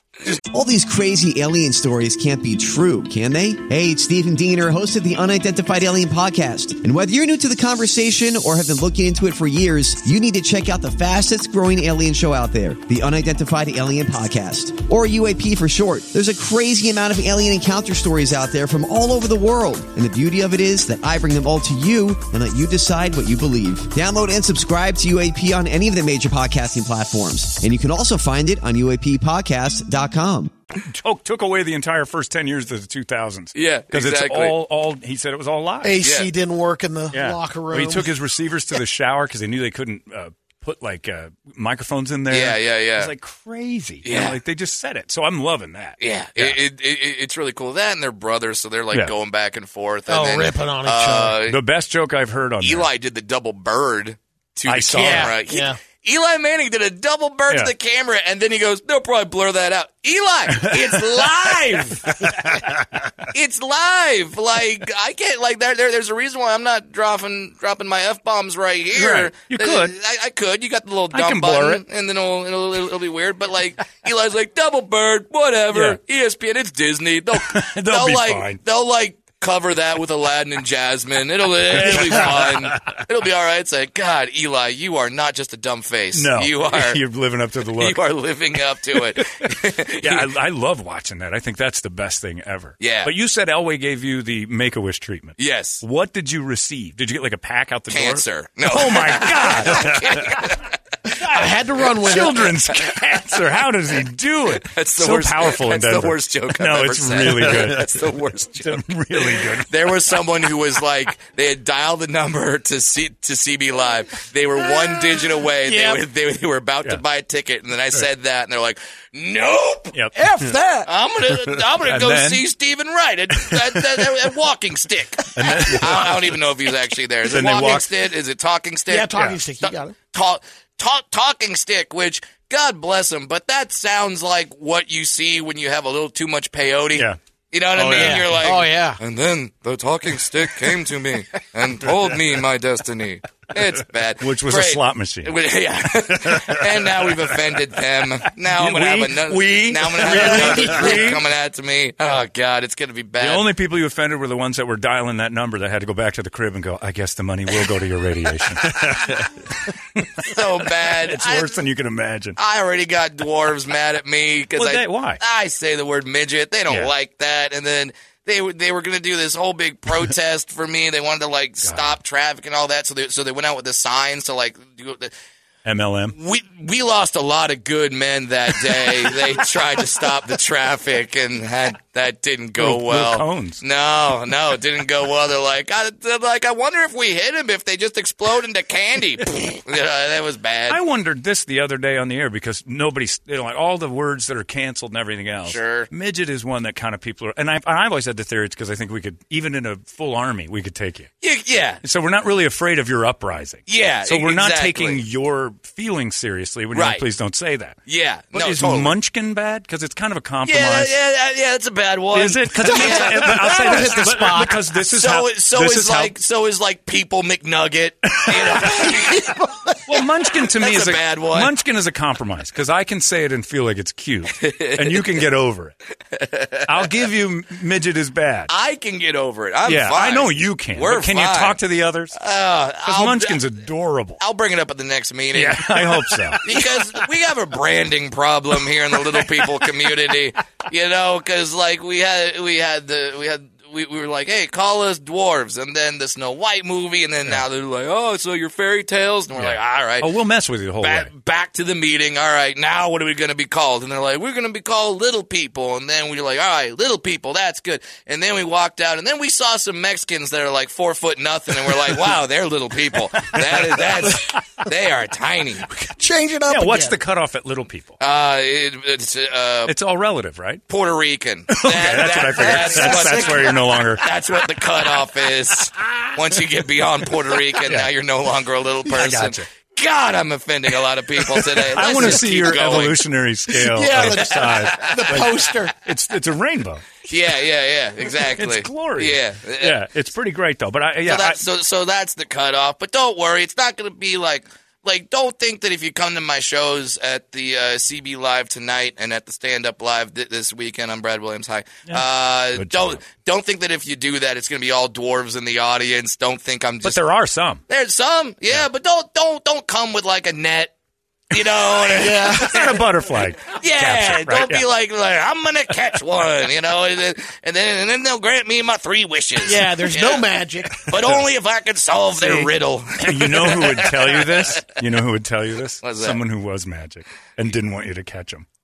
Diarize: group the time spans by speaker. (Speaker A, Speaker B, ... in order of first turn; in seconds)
Speaker A: 0.5-30.5
Speaker B: 30.8-36.0, 37.1-46.6, 51.4-52.9, 54.7-55.4, 60.5-60.9, 62.1-62.9, 68.9-69.9, 71.1-71.8, 75.7-76.0, 77.4-78.6, 81.7-83.0, 86.1-88.0, 89.3-100.6, 101.2-109.7, 119.9-120.5, 121.8-122.4, 123.3-124.1, 125.3-126.4, 127.2-127.9, 137.7-138.4, 143.6-145.4, 145.9-147.6, 148.5-151.2, 153.2-162.4, 164.6-165.2, 171.6-172.0, 175.7-176.2, 182.6-183.6, 190.7-201.1, 201.8-207.8, 208.3-210.9, 212.1-216.1, 218.2-219.1, 219.9-225.7, 226.7-228.5, 229.7-232.2, 232.8-234.2, 235.3-237.0, 238.6-239.7, 249.4-251.1, 263.1-264.4, 266.5-268.0, 269.7-270.6, 271.5-274.0, 277.6-277.9, 278.8-279.5, 281.2-286.8, 288.1-291.4, 301.9-303.0, 306.8-307.6, 312.1-314.6, 322.2-328.4
Speaker C: 33.5-34.5, 36.0-36.3, 42.3-43.1, 44.0-44.4, 46.0-51.6, 52.6-62.2, 63.3-87.0, 87.8-90.3, 92.8-93.1, 95.4-95.8, 97.9-100.7, 104.6-119.9, 120.8-153.4, 160.2-161.6, 162.4-175.1, 176.2-190.8, 195.4-195.9, 201.2-201.8, 203.7-205.0, 206.7-207.1, 207.9-208.9, 210.4-213.7, 214.9-221.5, 224.4-225.2, 226.1-226.9, 228.5-231.6, 232.2-233.4, 234.2-250.1, 250.8-265.6, 268.0-269.7, 270.7-283.1, 283.9-285.5, 287.1-289.8, 291.0-307.0, 307.7-310.7, 311.3-312.9, 313.4-324.6, 325.8-326.2
Speaker D: 35.8-38.1, 50.1-51.4, 55.0-55.8, 101.2-102.5, 115.6-116.0, 120.1-120.9, 128.9-129.9, 137.9-139.0, 150.1-151.1, 212.7-214.6, 265.7-266.9, 272.4-273.7, 283.5-285.8, 312.0-312.8, 319.4-320.9